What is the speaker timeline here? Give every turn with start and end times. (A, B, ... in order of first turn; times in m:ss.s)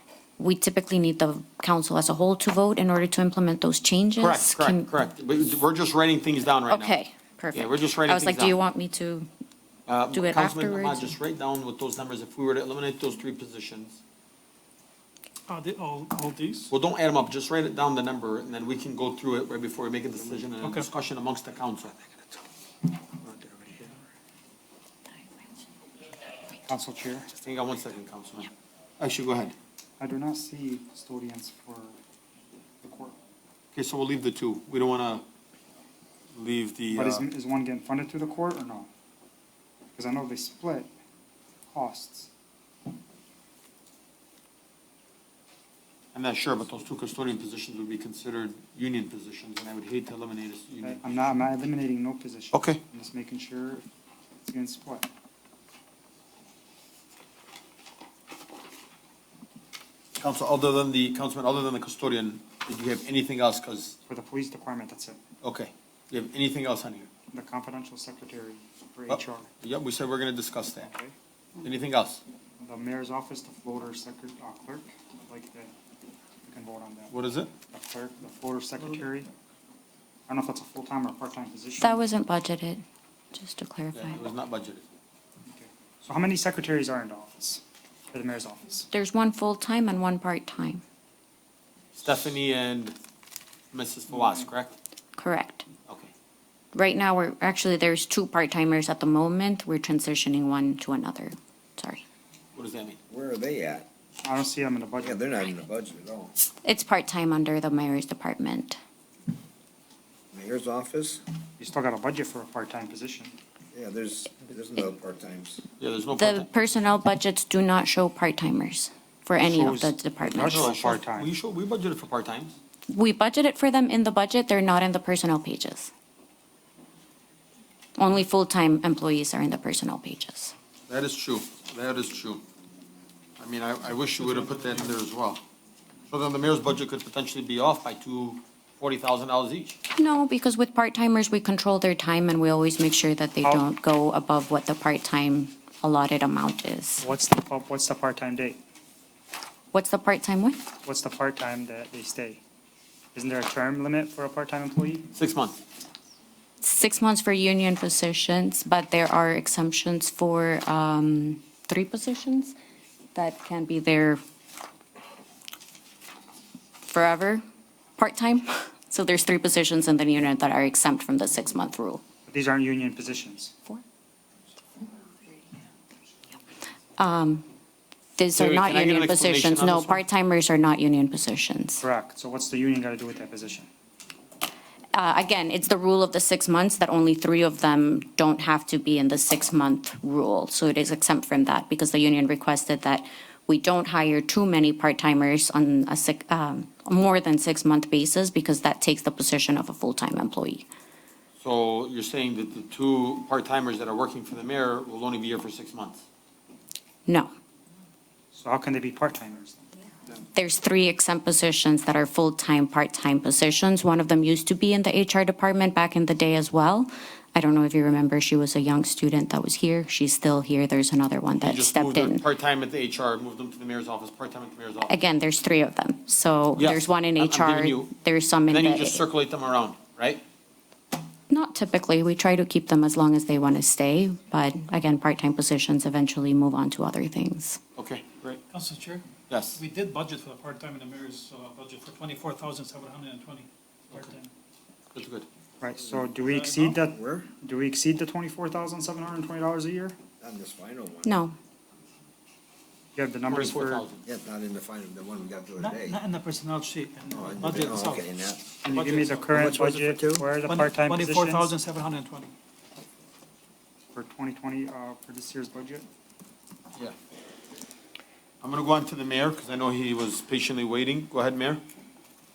0:00.4-0:04.9 A
0:04.2-0:07.0 B
0:06.7-0:09.3 A
0:07.5-0:08.6 B
0:09.9-0:14.0 B
0:10.1-0:11.2 A
0:15.5-0:16.7 C
0:16.7-0:22.2 B
0:20.6-0:20.9 C
0:23.2-0:23.9 D
0:26.7-0:27.3 D
0:27.4-0:29.5 B
0:30.0-0:32.0 D
0:32.8-0:33.2 D
0:33.8-0:35.2 B
0:36.4-0:37.2 B
0:36.9-0:38.9 D
0:40.0-0:40.9 D
0:41.7-0:42.3 D
0:46.1-0:51.0 B
0:50.8-0:53.8 D
0:52.5-0:52.8 B
0:54.4-0:55.1 D
1:00.2-1:04.0 B
1:04.1-1:05.2 D
1:05.4-1:07.1 B
1:07.3-1:09.5 D
1:09.1-1:10.9 B
1:10.8-1:11.2 D
1:11.6-1:12.2 B
1:12.6-1:15.7 D
1:16.4-1:17.1 D
1:17.1-1:17.5 B
1:17.7-1:19.3 D
1:20.3-1:22.1 D
1:21.8-1:24.2 A
1:23.9-1:24.8 B
1:25.5-1:28.9 D
1:28.9-1:30.8 A
1:32.0-1:33.0 B
1:33.7-1:34.7 B
1:35.2-1:35.6 A
1:36.7-1:42.0 A
1:42.6-1:43.0 B
1:43.1-1:43.9 E
1:44.2-1:45.2 D
1:45.0-1:46.3 E
1:46.6-1:48.8 A
1:50.3-1:51.2 E
1:51.6-1:53.4 D
1:53.7-1:55.6 E
1:55.8-1:56.5 B
1:56.2-2:00.7 A
1:59.4-2:01.3 D
2:00.3-2:02.5 B
2:02.9-2:05.9 A
2:08.0-2:10.5 A
2:10.9-2:12.4 B
2:13.4-2:15.4 B
2:14.3-2:15.0 C
2:16.1-2:19.8 B
2:19.9-2:27.0 A
2:27.0-2:28.6 D
2:29.7-2:30.6 A
2:30.8-2:32.4 D
2:33.1-2:35.1 D
2:35.1-2:35.6 B
2:36.6-2:42.6 A
2:43.1-2:44.2 A
2:46.9-2:47.4 A
2:48.0-2:52.0 A
2:52.3-2:53.5 D
2:57.0-2:57.4 A
2:58.2-3:01.8 A
2:58.4-3:00.0 B
3:01.8-3:03.7 D
3:04.9-3:20.7 A
3:21.4-3:26.0 B
3:28.3-3:29.6 D
3:30.3-3:42.2 A
3:41.4-3:45.0 B
3:44.9-3:49.0 A
3:46.6-3:47.9 B
3:48.5-3:50.2 B
3:51.3-3:57.6 A
3:57.8-3:58.4 B
3:58.5-4:04.3 C
3:59.3-3:59.6 B
4:04.9-4:05.3 B
4:05.6-4:10.0 D
4:06.2-4:06.8 C
4:06.9-4:07.3 E
4:10.2-4:11.2 E
4:11.0-4:11.4 A
4:13.0-4:13.9 D
4:13.3-4:14.0 B
4:14.0-4:16.0 E
4:15.6-4:18.0 C
4:17.1-4:18.5 E
4:18.6-4:21.5 D
4:18.7-4:22.3 C
4:20.0-4:20.3 E
4:23.9-4:25.9 D
4:28.4-4:31.6 B